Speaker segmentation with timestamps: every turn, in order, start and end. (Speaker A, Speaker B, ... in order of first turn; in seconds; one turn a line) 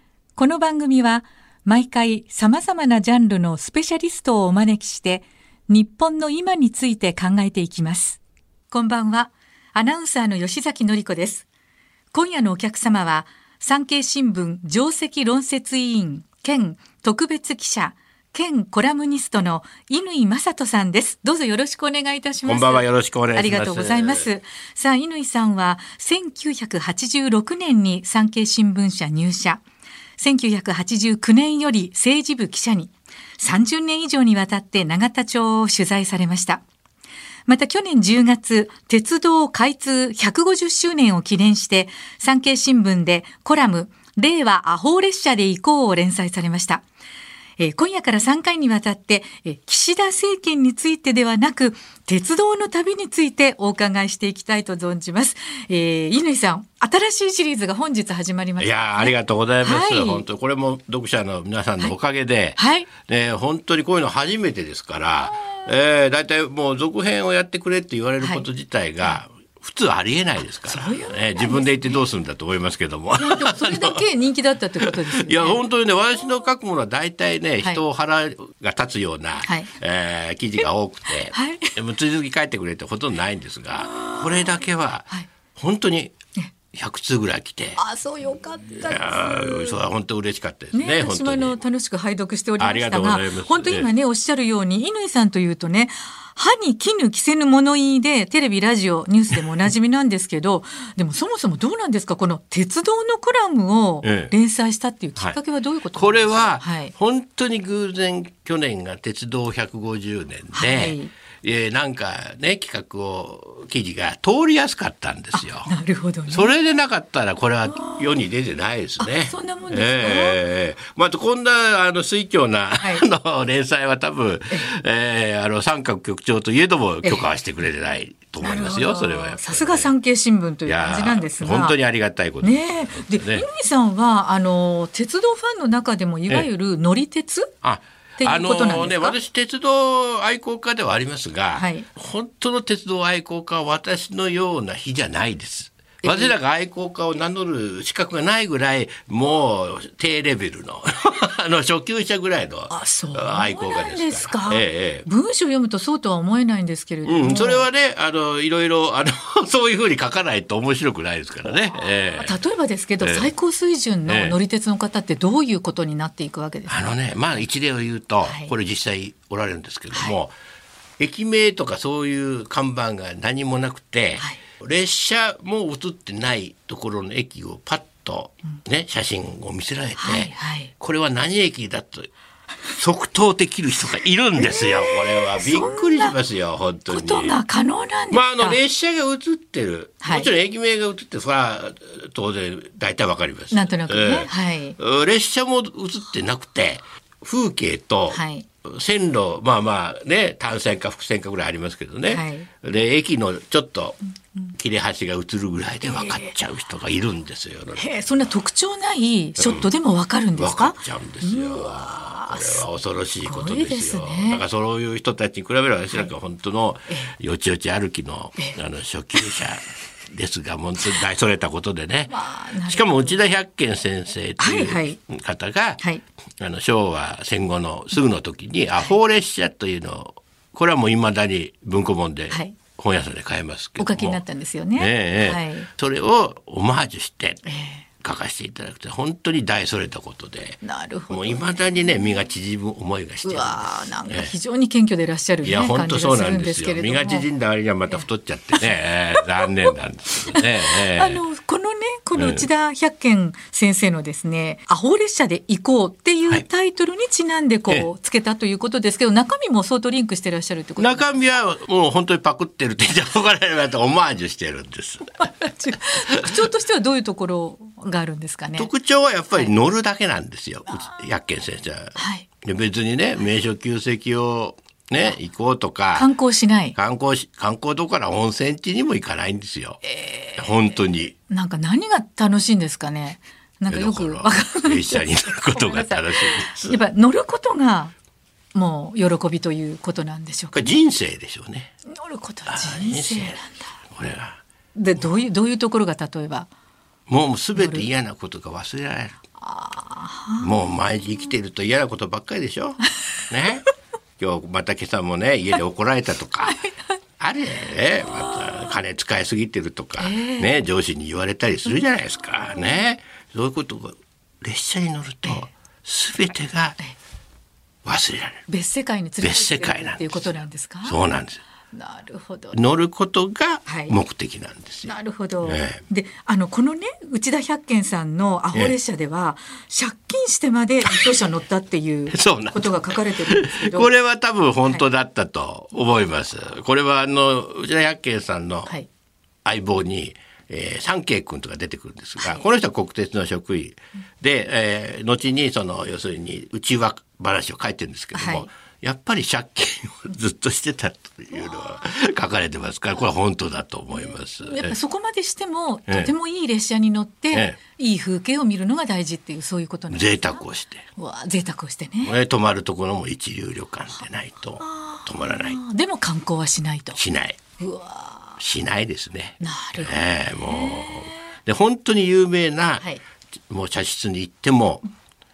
Speaker A: 0.4-8.2
Speaker A: 8.7-11.5
Speaker A: 12.1-29.6
Speaker B: 22.5-24.3
Speaker A: 30.2-36.6
Speaker A: 37.5-46.8
Speaker A: 47.6-60.2
Speaker B: 58.6-74.0
Speaker A: 62.6-62.9
Speaker A: 68.2-68.5
Speaker A: 70.7-72.0
Speaker A: 73.2-75.6
Speaker B: 74.8-86.2
Speaker A: 79.4-79.7
Speaker A: 81.3-81.8
Speaker A: 83.8-84.5
Speaker B: 86.7-87.8
Speaker A: 87.8-89.8
Speaker B: 88.8-91.6
Speaker A: 90.7-106.9
Speaker B: 92.6-93.9
Speaker B: 104.0-104.3
Speaker B: 106.0-115.7
Speaker A: 110.5-111.1
Speaker A: 115.4-116.5
Speaker B: 116.3-129.9
Speaker A: 117.7-118.1
Speaker A: 119.0-120.4
Speaker A: 122.8-123.1
Speaker A: 128.4-131.8
Speaker B: 130.7-133.4
Speaker A: 132.4-137.5
Speaker B: 137.6-155.1
Speaker A: 138.2-139.2
Speaker A: 141.6-141.9
Speaker A: 146.0-146.3
Speaker A: 152.7-157.7
Speaker B: 157.1-162.4
Speaker A: 161.5-167.0
Speaker B: 163.0-163.3
Speaker B: 164.1-164.4
Speaker B: 166.7-170.3
Speaker A: 168.2-168.5
Speaker B: 171.0-182.1
Speaker A: 180.0-180.7
Speaker B: 182.8-187.4
Speaker A: 184.4-186.2
Speaker A: 186.9-188.6
Speaker B: 188.1-204.0
Speaker A: 190.0-190.3
Speaker A: 193.5-194.8
Speaker A: 198.1-198.5
Speaker A: 202.1-202.5
Speaker B: 204.5-207.9
Speaker A: 205.8-206.3
Speaker A: 207.8-212.7
Speaker B: 209.4-209.7
Speaker B: 210.4-225.8
Speaker A: 213.2-214.4
Speaker A: 222.1-223.2
Speaker A: 224.4-225.0
Speaker B: 226.4-234.2
Speaker A: 232.3-232.6
Speaker A: 233.8-235.7
Speaker B: 234.8-237.4
Speaker A: 237.4-237.8
Speaker B: 238.0-244.3
Speaker A: 240.6-241.4
Speaker A: 243.2-247.3
Speaker B: 245.4-251.2
Speaker A: 248.6-249.7
Speaker A: 250.3-261.2
Speaker B: 252.2-252.5
Speaker B: 260.8-265.2
Speaker A: 265.2-268.7
Speaker B: 268.6-276.1
Speaker A: 272.0-272.3
Speaker A: 275.9-276.8
Speaker B: 276.8-279.8
Speaker A: 279.8-280.8
Speaker B: 280.4-281.1
Speaker A: 281.3-287.9
Speaker B: 283.7-286.8
Speaker A: 288.5-290.8
Speaker B: 290.5-291.7
Speaker A: 291.9-293.7
Speaker B: 292.5-294.4
Speaker A: 294.8-296.5
Speaker B: 297.1-299.2
Speaker A: 297.6-297.9
Speaker A: 299.4-300.5
Speaker B: 300.4-303.7
Speaker B: 304.2-306.6
Speaker A: 306.4-306.9
Speaker B: 307.2-316.8
Speaker A: 310.0-310.5
Speaker B: 317.9-318.4
Speaker A: 318.5-321.0
Speaker B: 319.2-320.3
Speaker B: 320.8-321.4
Speaker A: 321.7-322.6
Speaker B: 322.5-325.8
Speaker A: 323.7-324.0
Speaker A: 324.9-333.9
Speaker B: 332.1-338.7
Speaker B: 339.4-354.8
Speaker A: 342.2-342.5
Speaker A: 348.1-348.5
Speaker A: 354.0-360.4
Speaker B: 355.9-356.1
Speaker B: 359.9-360.9
Speaker A: 361.0-362.1
Speaker B: 362.0-365.6
Speaker A: 364.6-367.0
Speaker B: 367.0-367.4
Speaker A: 367.6-368.4
Speaker B: 368.4-372.9
Speaker A: 369.4-371.2
Speaker B: 373.5-374.8